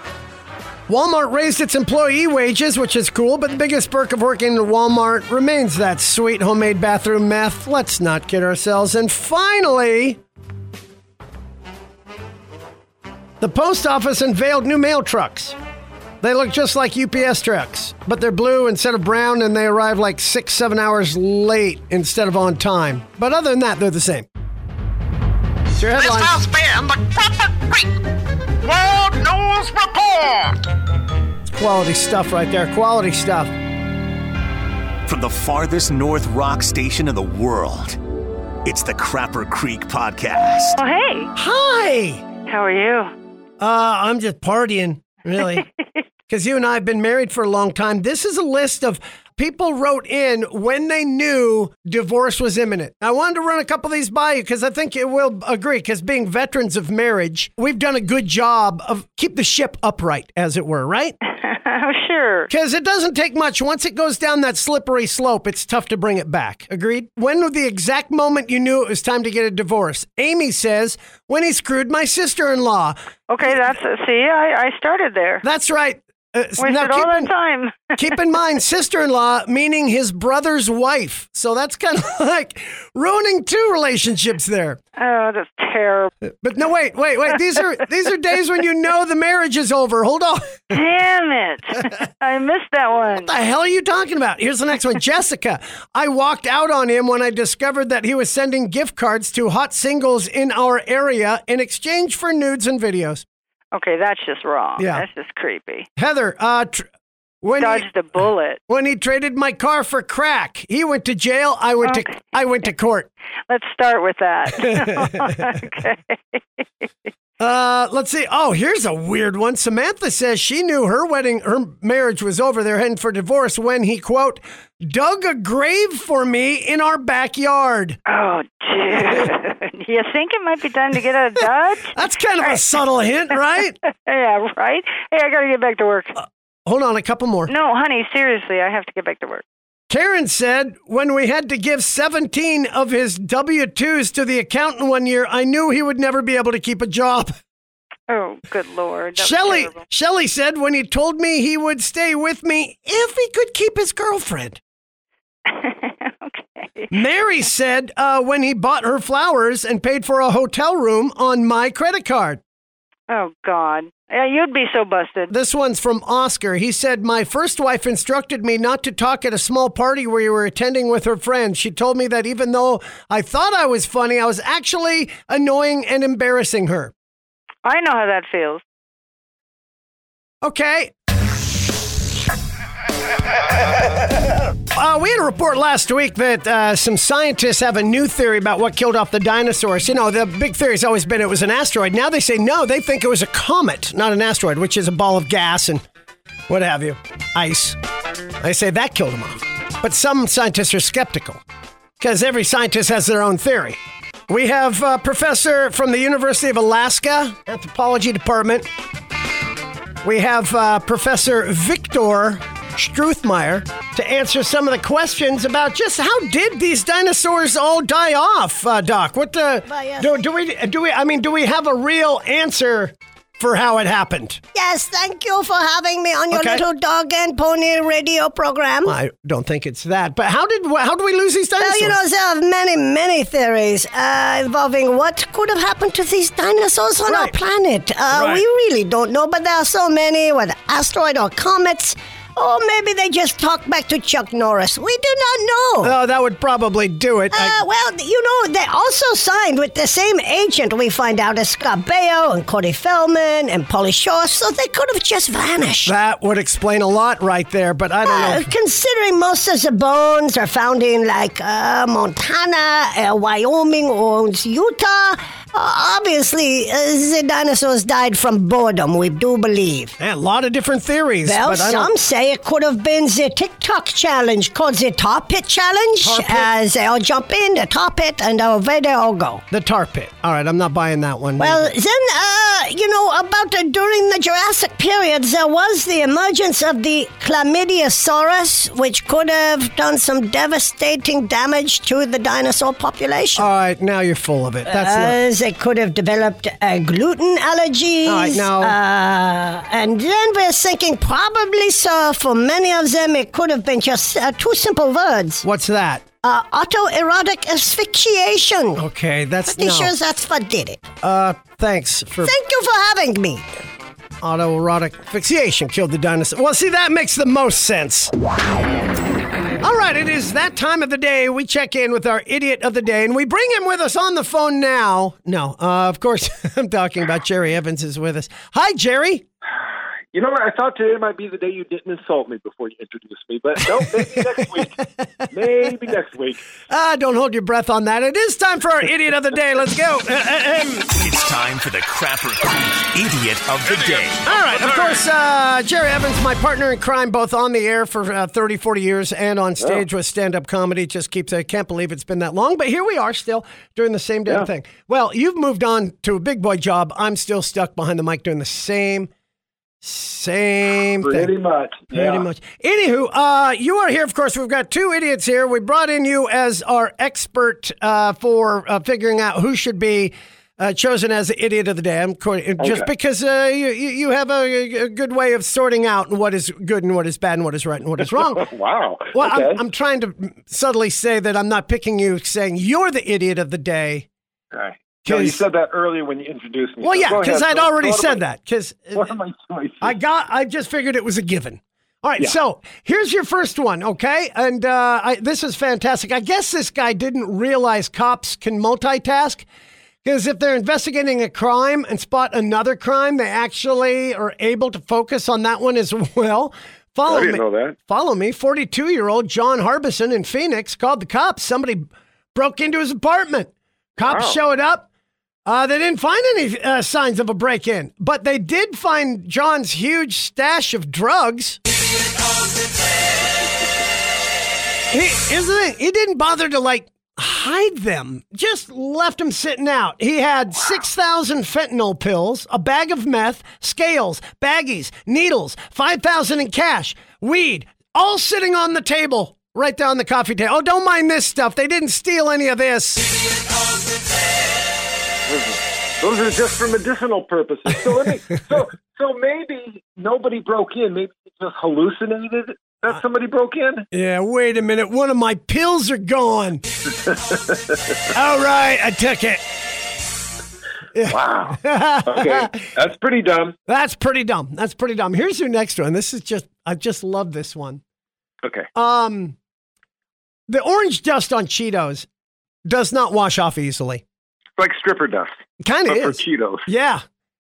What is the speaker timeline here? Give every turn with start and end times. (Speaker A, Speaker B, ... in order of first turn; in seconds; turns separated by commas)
Speaker A: 0.9-10.2, Speaker A: 13.4-15.5, Speaker A: 16.2-24.2, Speaker A: 25.8-26.4, Speaker B: 25.9-28.0, Speaker B: 28.6-30.6, Speaker A: 31.6-33.5, Speaker C: 35.0-38.0, Speaker C: 38.6-40.8, Speaker D: 40.8-41.3, Speaker A: 41.3-42.2, Speaker D: 42.4-43.1, Speaker A: 43.6-45.6, Speaker A: 46.3-61.1, Speaker D: 61.4-62.5, Speaker A: 62.5-73.5, Speaker D: 73.3-75.4, Speaker A: 75.4-77.3, Speaker D: 76.6-78.0, Speaker A: 78.0-84.8, Speaker D: 85.0-86.1, Speaker A: 86.4-90.8, Speaker D: 90.7-93.3, Speaker A: 93.1-103.2, Speaker D: 103.7-105.9, Speaker A: 104.8-105.0, Speaker A: 106.0-106.9, Speaker A: 107.4-107.8, Speaker D: 107.6-108.6, Speaker A: 108.7-113.1, Speaker D: 113.5-116.6, Speaker A: 114.5-115.5, Speaker A: 117.4-128.0, Speaker D: 128.1-131.9, Speaker A: 131.9-133.8, Speaker D: 134.0-136.1, Speaker A: 136.2-137.5, Speaker D: 137.5-139.4, Speaker A: 139.9-147.3, Speaker D: 148.1-149.8, Speaker A: 149.2-154.6, Speaker D: 155.4-156.9, Speaker A: 156.9-162.4, Speaker D: 163.1-165.3, Speaker A: 165.3-176.9, Speaker D: 177.6-178.6, Speaker A: 180.4-180.9, Speaker A: 184.7-195.8, Speaker A: 196.5-197.8, Speaker A: 198.4-201.4, Speaker A: 202.0-203.8, Speaker A: 204.3-208.7, Speaker A: 210.0-224.4, Speaker E: 219.7-220.1, Speaker E: 224.5-228.9, Speaker A: 226.3-226.6, Speaker A: 228.8-232.0, Speaker E: 231.6-245.9, Speaker A: 237.1-237.3, Speaker A: 238.1-238.4, Speaker A: 245.8-247.6, Speaker E: 247.3-255.9, Speaker A: 255.8-258.5, Speaker E: 258.0-269.9, Speaker A: 270.0-271.9, Speaker E: 271.2-279.4, Speaker A: 276.0-276.5, Speaker A: 279.5-281.7, Speaker E: 281.4-293.5, Speaker A: 293.4-295.2, Speaker E: 294.6-305.4, Speaker A: 298.1-298.8, Speaker A: 305.4-306.0, Speaker E: 306.2-308.8, Speaker A: 308.8-309.9, Speaker E: 309.4-310.8, Speaker A: 311.0-312.3, Speaker E: 312.2-313.4, Speaker A: 314.2-318.1, Speaker A: 319.6-329.2, Speaker F: 330.1-334.7, Speaker A: 333.7-335.7, Speaker F: 335.3-336.4, Speaker A: 336.7-340.9, Speaker C: 340.9-344.3, Speaker A: 344.2-359.1, Speaker A: 359.8-361.3, Speaker F: 361.0-362.2, Speaker A: 361.9-378.5, Speaker F: 372.6-372.9, Speaker F: 378.4-379.6, Speaker A: 379.1-384.1, Speaker F: 384.5-388.2, Speaker A: 385.0-385.4, Speaker A: 386.8-389.1, Speaker F: 388.9-389.9, Speaker A: 389.8-399.4, Speaker A: 400.0-414.9, Speaker F: 407.1-407.7, Speaker F: 414.0-414.4, Speaker A: 415.5-421.6, Speaker A: 424.9-443.0, Speaker F: 445.3-453.9, Speaker A: 453.9-456.6, Speaker F: 457.1-457.8, Speaker A: 458.1-459.4, Speaker A: 460.9-462.6, Speaker F: 461.1-463.6, Speaker A: 463.7-467.8, Speaker F: 468.4-468.7, Speaker A: 468.7-469.4, Speaker A: 470.5-472.1, Speaker A: 472.6-474.0, Speaker F: 474.6-475.3, Speaker A: 475.6-477.0, Speaker F: 475.9-476.6